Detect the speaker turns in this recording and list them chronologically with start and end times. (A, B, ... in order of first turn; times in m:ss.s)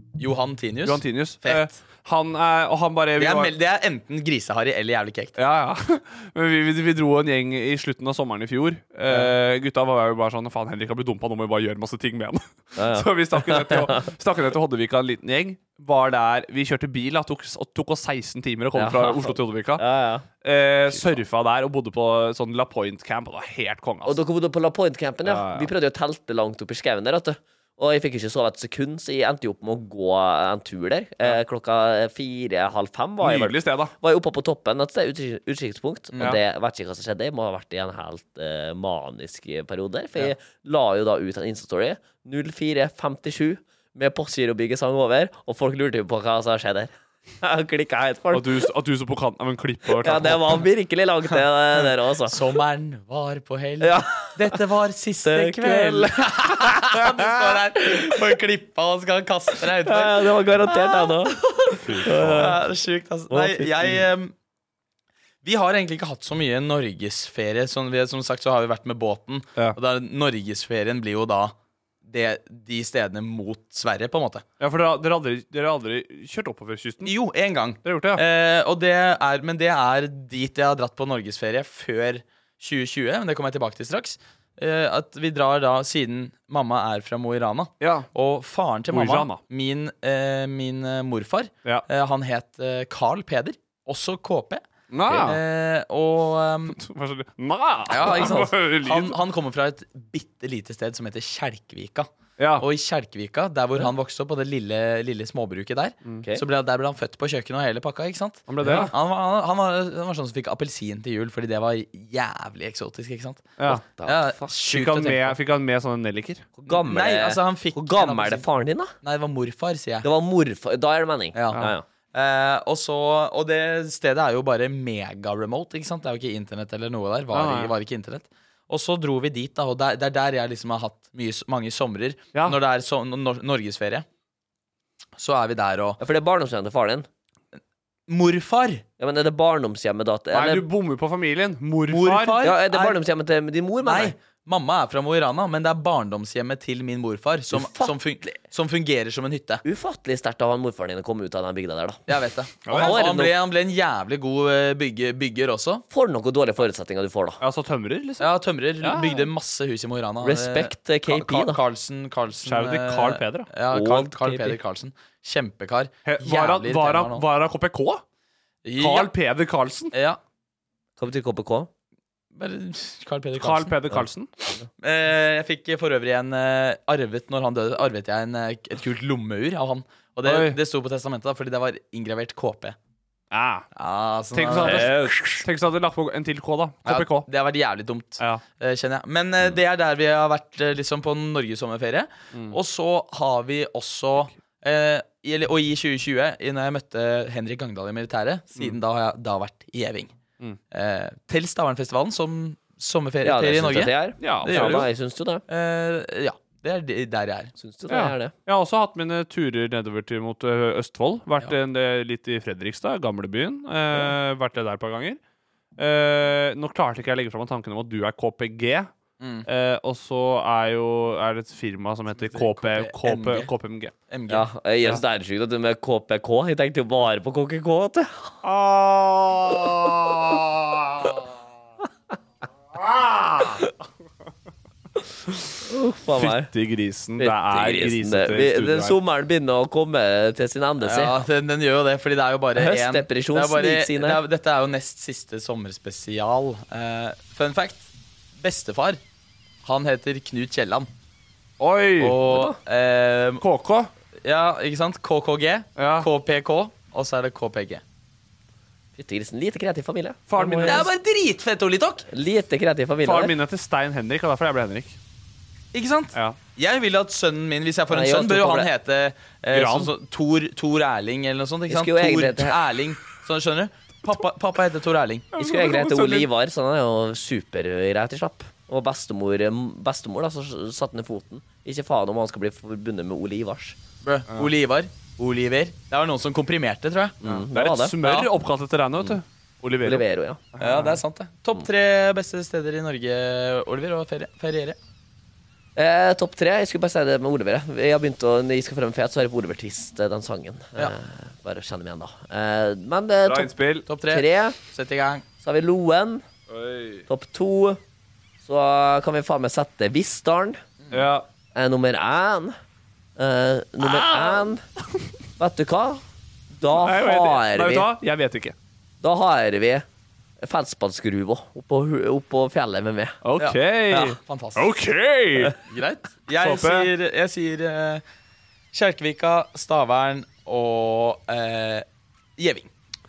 0:00.2-0:01.8 A
0:00.8-0:03.5 B
0:03.2-0:05.4 A
0:05.4-0:19.8 B
0:12.8-0:14.0 C
0:18.7-0:20.2 C
0:20.4-0:24.2 B
0:24.0-0:48.5 C
0:25.2-0:25.7 B
0:33.2-0:33.9 B
0:36.1-0:36.4 A
0:48.3-0:50.6 B
0:50.0-0:52.4 C
0:52.3-1:04.3 A
0:53.8-0:54.6 C
0:55.2-0:57.0 C
0:59.8-1:02.6 C
1:01.8-1:02.6 B
1:03.3-1:04.0 C
1:05.4-1:11.5 A
1:12.0-1:14.4 A
1:14.6-1:17.1 B
1:17.0-1:34.6 A
1:17.8-1:18.2 B
1:27.8-1:28.1 B
1:28.9-1:29.4 B
1:34.9-1:35.4 B
1:35.2-1:36.8 A
1:36.7-1:39.2 B
1:37.9-1:55.4 A
1:42.4-1:42.6 B
1:48.5-1:48.9 B
1:53.6-1:53.8 B
1:54.0-1:54.5 C
1:54.5-1:56.5 B
1:56.6-1:58.9 C
1:56.7-1:58.4 A
1:59.0-2:00.1 A
2:00.0-2:01.8 C
2:01.3-2:14.0 A
2:07.3-2:07.7 B
2:15.2-2:16.0 A
2:16.0-2:17.1 C
2:18.1-2:18.8 A
2:19.0-2:20.7 C
2:20.3-2:22.4 B
2:21.9-2:23.0 A
2:22.4-2:24.1 C
2:23.8-2:29.6 A
2:27.5-2:27.9 C
2:29.6-2:32.0 C
2:32.1-2:35.8 A
2:32.6-2:33.0 B
2:32.7-2:33.3 C
2:35.9-2:37.4 C
2:37.4-2:39.3 B
2:38.2-2:47.2 A
2:40.2-2:41.6 C
2:42.4-2:43.5 B
2:43.7-2:44.6 C
2:46.0-2:48.0 B
2:48.6-2:49.1 A
2:48.8-2:49.9 B
2:49.9-2:50.2 A
2:51.0-2:51.7 C
2:52.3-2:53.7 A
2:53.4-2:54.3 B
2:54.8-3:02.8 A
3:00.2-3:00.6 B
3:03.3-3:03.6 B
3:03.8-3:05.4 A
3:04.3-3:07.3 B
3:04.6-3:04.9 C
3:06.8-3:20.1 A
3:12.3-3:12.6 B
3:20.7-3:23.9 A
3:23.2-3:25.4 C
3:24.2-3:24.9 B
3:24.4-3:24.9 A
3:25.5-3:27.5 A
3:27.6-3:28.3 C
3:27.9-3:35.2 B
3:35.8-3:38.9 B
3:39.2-3:39.4 A
3:39.4-3:43.9 B
3:42.2-3:43.5 A
3:44.1-3:44.5 A
3:44.3-3:48.4 C
3:48.4-3:51.2 B
3:52.8-3:53.7 B
3:55.6-3:56.5 C
3:56.2-3:59.0 B
3:57.2-4:01.2 C
4:00.8-4:09.0 A
4:02.6-4:04.2 C
4:09.6-4:10.9 A
4:11.6-4:12.2 B
4:12.0-4:13.4 A
4:12.2-4:12.6 C
4:13.4-4:13.9 B
4:14.2-4:17.8 A
4:15.8-4:16.1 B
4:19.0-4:20.9 C
4:20.3-4:20.9 B
4:20.6-4:22.1 A
4:22.1-4:23.3 C
4:23.0-4:25.0 B
4:25.7-4:35.3 A
4:27.9-4:28.7 C
4:29.5-4:29.9 B
4:31.7-4:32.6 C
4:35.3-4:36.3 B
4:35.4-4:43.8 C
4:44.0-4:47.2 A
4:47.2-4:47.9 C
4:47.2-4:51.0 B
4:48.0-4:48.3 A
4:49.8-4:50.4 C
4:50.6-4:54.8 A
4:55.8-5:03.5 C
5:03.2-5:03.9 B
5:03.9-5:05.2 A
5:04.1-5:04.6 C
5:05.4-5:06.2 C
5:06.5-5:07.0 B
5:07.1-5:07.8 C
5:08.4-5:10.6 C
5:10.9-5:11.2 B
5:11.5-5:12.6 C
5:13.2-5:14.6 C
5:13.8-5:14.5 B
5:15.4-5:16.0 C
5:16.5-5:17.9 C
5:16.7-5:18.5 B
5:19.0-5:19.8 C
5:20.4-5:23.2 C
5:23.2-5:25.6 B
5:23.4-5:24.7 A
5:25.6-5:28.0 A
5:26.3-5:26.9 B
5:28.7-5:31.8 A
5:32.4-5:32.7 A